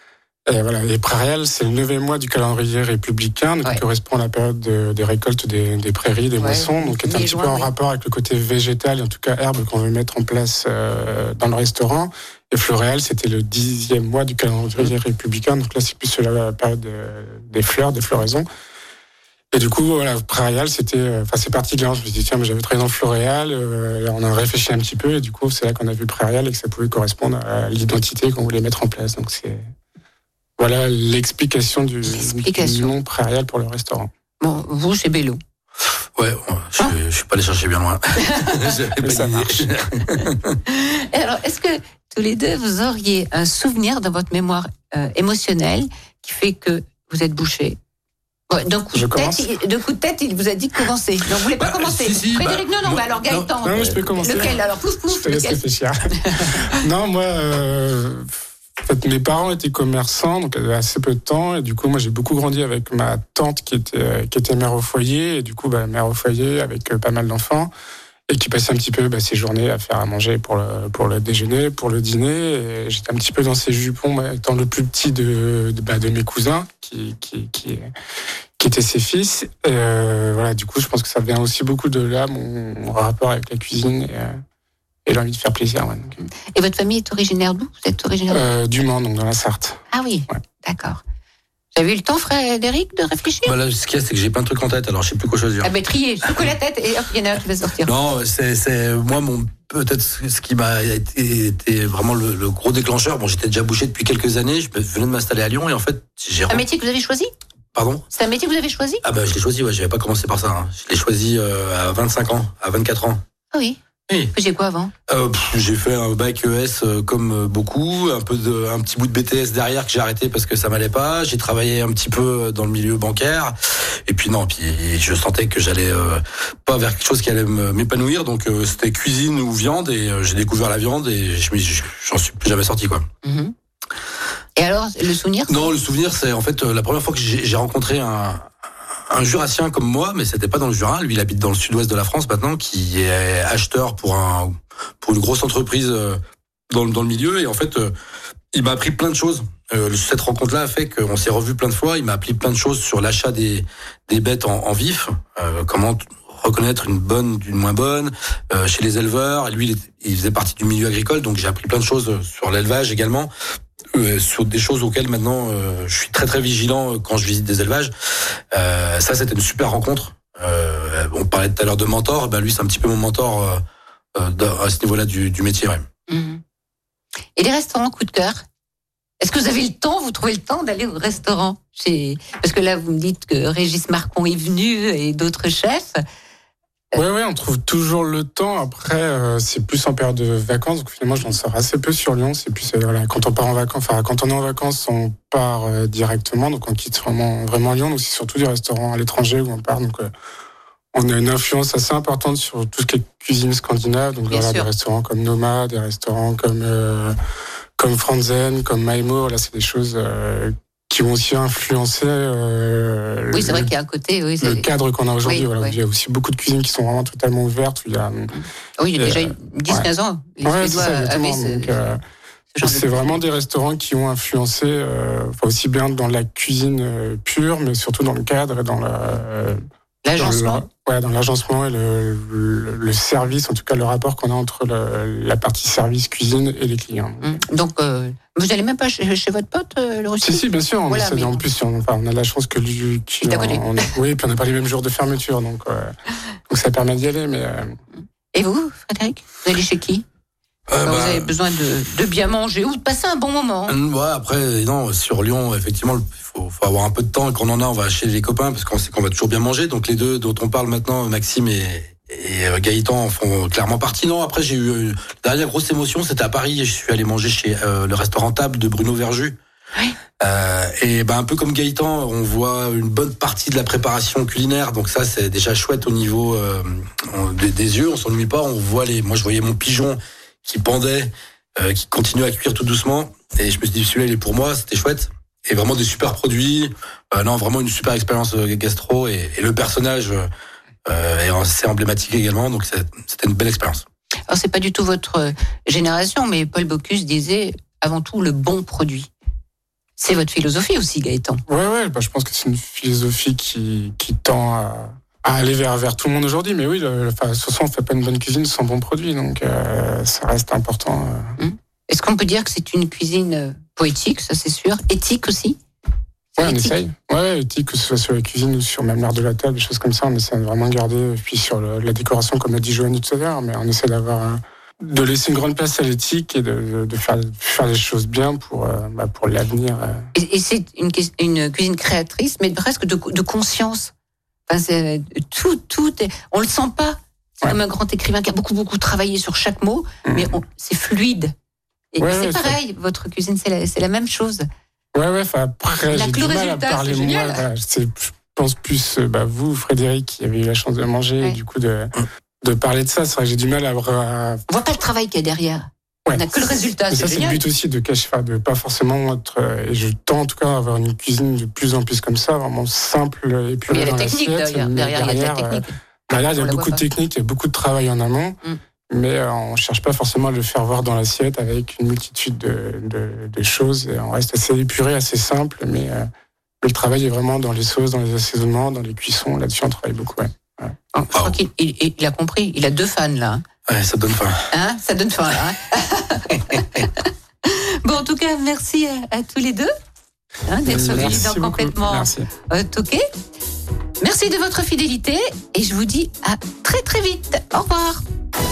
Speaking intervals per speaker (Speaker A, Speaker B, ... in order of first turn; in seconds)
Speaker A: 0.5-18.5, 19.5-29.7, 30.6-34.1, 39.0-39.9, 48.9-49.5, 53.6-67.7, 68.3-77.9, 78.6-84.4, 85.0-86.2, 88.3-90.4, 186.9-200.1, 200.9-207.2, 207.8-213.7, 214.4-218.3, 219.0-219.9, 220.4-222.0, 222.6-229.6, 230.2-237.4, 240.2-245.9, 246.5-247.8, 301.5-311.4, 316.4-330.0, 340.0-340.3, 342.0-342.6, 344.9-354.4, 356.1-368.4, 368.9-376.1, 376.6-380.8, 390.6-392.3
Speaker B: 6.4-7.7, 32.0-32.9, 34.4-35.4, 38.3-38.7, 40.7-47.8, 48.5-55.6, 56.2-56.5, 86.2-88.4, 89.9-91.0, 91.7-93.5, 95.6-97.9, 106.5-107.3, 108.1-109.0, 113.5-113.8, 114.3-114.9, 133.2-133.5, 134.6-135.7, 176.1-176.4, 177.4-178.4, 179.2-186.0, 204.3-204.7, 213.3-214.7, 215.2-215.7, 218.3-221.7, 222.5-223.2, 230.0-230.6, 237.2-241.4, 243.2-243.9, 248.3-250.0, 250.8-253.7, 294.3-299.1, 300.0-301.4, 311.4-315.6, 316.4-316.8, 330.1-333.9, 334.5-341.3, 341.9-344.5, 345.9-347.4, 354.5-357.4, 363.7-366.8, 380.9-383.4, 384.5-389.7, 390.4-393.0, 394.0-398.0
Speaker C: 36.2-40.6, 51.6-54.5, 93.4-95.7, 96.3-96.5, 97.8-106.6, 107.8-108.0, 109.0-113.2, 115.1-133.1, 135.5-138.5, 139.1-147.9, 148.5-163.3, 163.9-167.9, 168.5-173.6, 174.2-175.9, 250.7-251.3, 253.7-269.4, 270.2-290.3, 290.9-293.8, 383.7-384.5